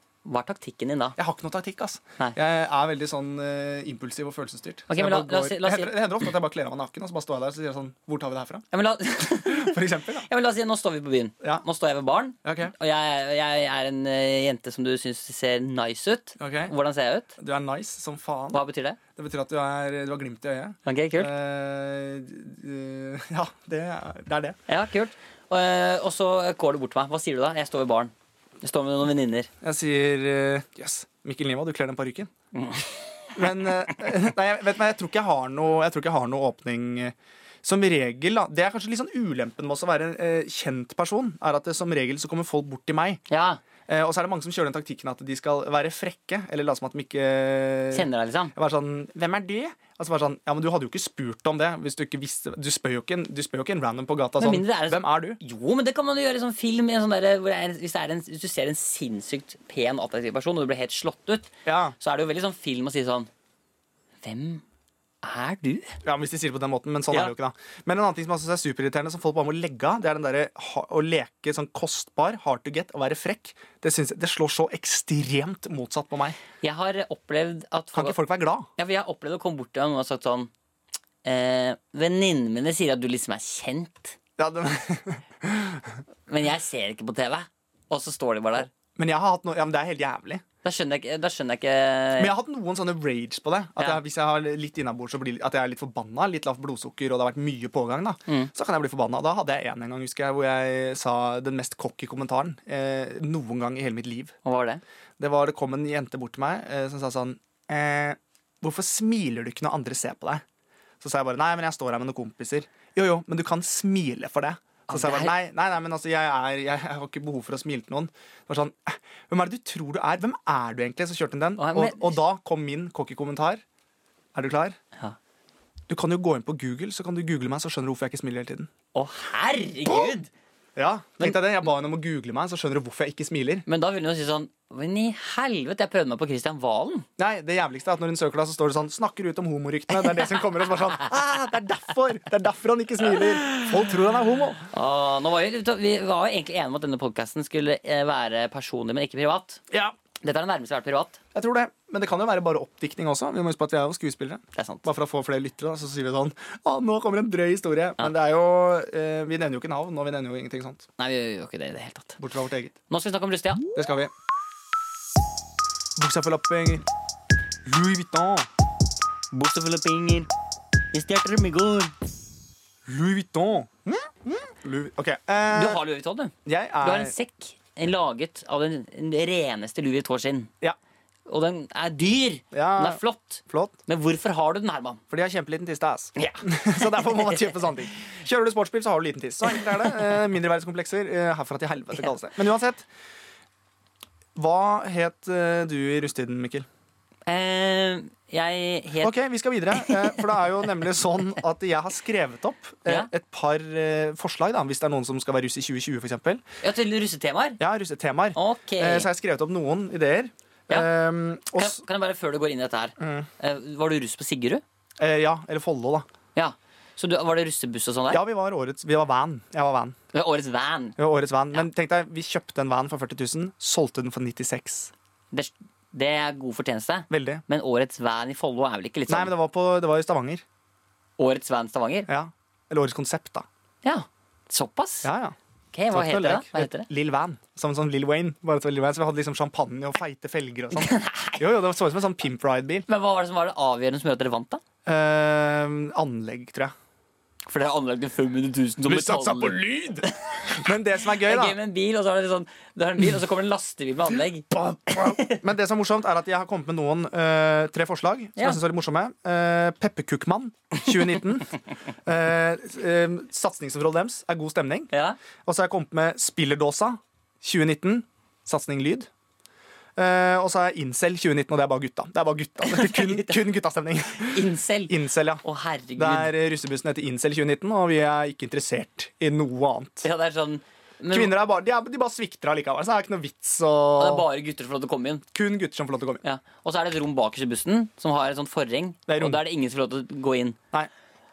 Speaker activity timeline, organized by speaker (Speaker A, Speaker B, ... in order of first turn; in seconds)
Speaker A: 0.2-1.2, 4.9-6.1, 8.7-17.3, 18.5-19.0, 20.9-21.3, 24.7-29.5, 32.5-32.9, 43.3-43.6, 47.9-48.5, 54.4-63.3, 64.2-64.6, 65.2-66.0, 76.6-78.2, 78.8-80.5, 81.2-84.2, 86.3-88.7, 90.6-92.3, 104.5-104.8, 114.9-115.3, 121.6-122.2, 128.9-130.3, 133.7-137.1, 144.7-149.6, 150.2-151.2, 154.6-154.8, 161.0-162.2, 162.9-163.7, 169.3-170.3, 170.9-171.9, 175.5-180.5, 181.3-185.0, 186.2-187.7, 189.6-190.0, 197.3-199.2, 199.7-200.2, 206.6-207.6, 208.3-209.1, 211.6-214.6, 216.3-218.2, 220.1-221.0, 225.3-229.3, 231.2-232.1, 233.8-235.1, 235.7-236.9, 240.8-241.4, 242.9-244.6, 247.5-250.7, 251.2-255.4, 264.9-265.2, 272.6-273.4, 274.2-276.3, 280.0-281.3, 284.0-285.2, 286.2-290.6
Speaker B: 1.2-8.7, 9.2-10.3, 12.4-12.7, 16.4-16.7, 17.4-18.6, 19.2-24.6, 29.6-32.3, 33.4-43.2, 43.9-55.4, 61.7-62.0, 66.0-76.4, 78.0-78.7, 84.4-86.0, 89.0-90.4, 92.2-104.4, 105.2-110.4, 111.0-123.6, 124.3-124.8, 125.9-128.7, 129.9-130.2, 130.8-133.7, 137.2-144.7, 151.3-160.9, 162.2-162.8, 163.8-164.1, 166.0-166.8, 167.7-168.5, 172.9-175.8, 176.5-177.2, 182.5-183.8, 185.1-192.9, 194.4-196.7, 199.0-206.4, 207.6-211.8, 213.0-213.3, 215.0-216.1, 218.1-220.0, 221.0-224.9, 227.1-227.4, 229.1-230.4, 232.1-233.5, 235.0-235.4, 235.9-242.9, 244.9-246.7, 248.9-251.6, 254.5-261.5, 262.1-264.9, 265.4-269.1, 270.0-275.4, 276.0-280.1, 281.1-284.2, 285.3-286.2, 289.1-289.4